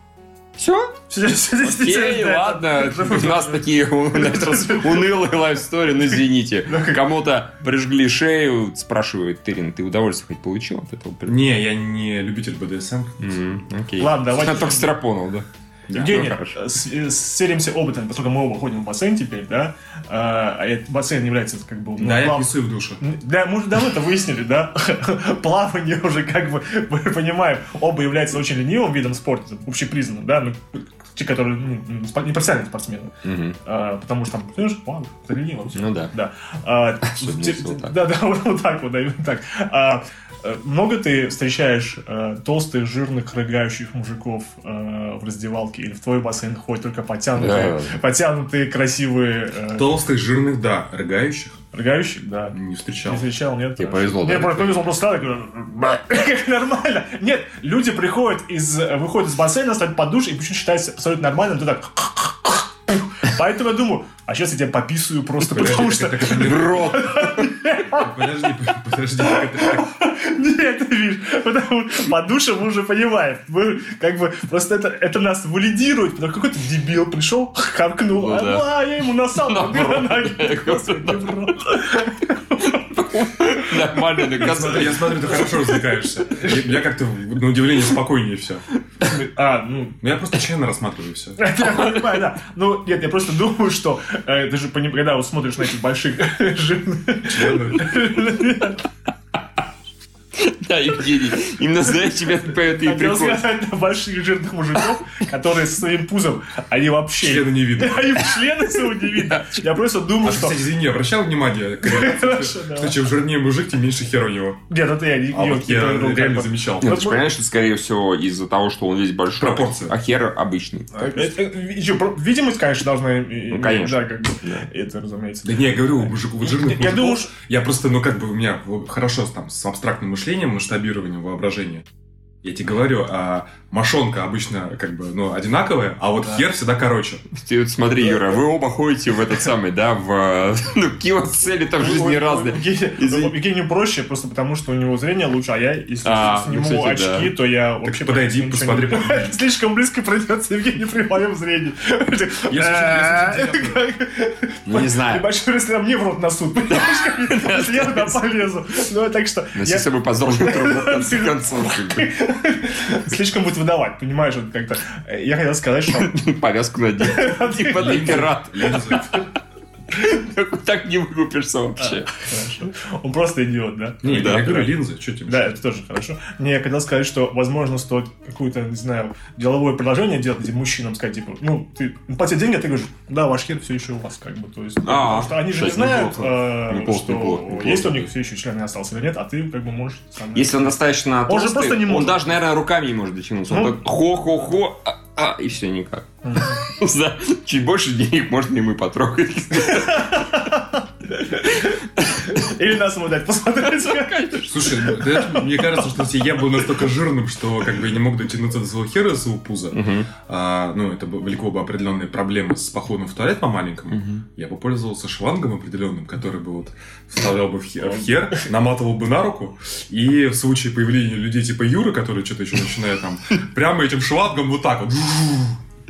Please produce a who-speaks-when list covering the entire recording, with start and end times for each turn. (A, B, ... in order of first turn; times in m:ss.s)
0:00.6-0:01.0 A
0:01.1-0:05.4 B
0:01.6-0:11.4 A
0:06.6-0:07.1 B
0:11.3-0:13.3 C
0:13.2-0:16.6 A
0:14.0-0:14.9 B
0:15.9-0:16.2 C
0:15.9-0:50.0 B
0:22.0-0:23.0 C
0:33.2-0:33.6 A
0:35.7-0:36.1 A
0:37.0-0:38.0 A
0:47.4-0:48.0 A
0:49.8-0:51.6 C
0:51.7-1:08.4 B
0:52.5-0:53.3 C
0:53.8-0:54.9 A
1:05.4-1:06.9 C
1:06.3-1:07.5 A
1:07.9-1:09.9 C
1:09.2-1:24.8 B
1:18.1-1:21.8 A
1:22.6-1:25.8 A
1:24.3-1:28.6 C
1:29.0-1:30.0 B
1:30.0-1:31.4 C
1:31.4-1:38.9 B
1:37.3-1:38.0 C
1:40.4-1:43.4 A
1:42.5-1:50.7 B
1:47.2-1:48.2 C
1:49.1-1:49.4 A
1:50.2-1:54.6 C
1:51.8-1:53.0 B
1:54.7-1:57.2 B
1:55.3-1:57.0 C
1:56.8-2:01.3 A
1:59.4-1:59.9 C
2:01.0-2:07.3 B
2:03.5-2:04.7 A
2:05.4-2:11.8 C
2:12.4-2:17.2 C
2:17.3-2:23.3 A
2:21.8-2:46.2 B
2:26.0-2:27.3 A
2:27.8-2:29.4 C
2:32.5-2:33.8 C
2:34.6-2:35.3 A
2:36.7-2:38.2 A
2:39.6-2:42.1 A
2:45.9-2:49.2 A
2:47.0-2:48.3 B
2:47.7-2:49.2 C
2:49.9-2:52.1 A
2:51.8-2:54.7 B
2:54.0-2:55.5 C
2:54.1-2:54.5 A
2:55.3-3:10.8 B
3:04.8-3:08.1 A
3:10.3-3:20.3 A
3:11.3-3:12.3 B
3:13.5-3:13.8 B
3:16.2-3:16.6 B
3:19.6-3:25.9 B
3:23.8-3:24.8 A
3:24.5-3:45.6 C
3:29.7-3:30.1 A
3:33.9-3:34.2 A
3:37.8-3:38.5 B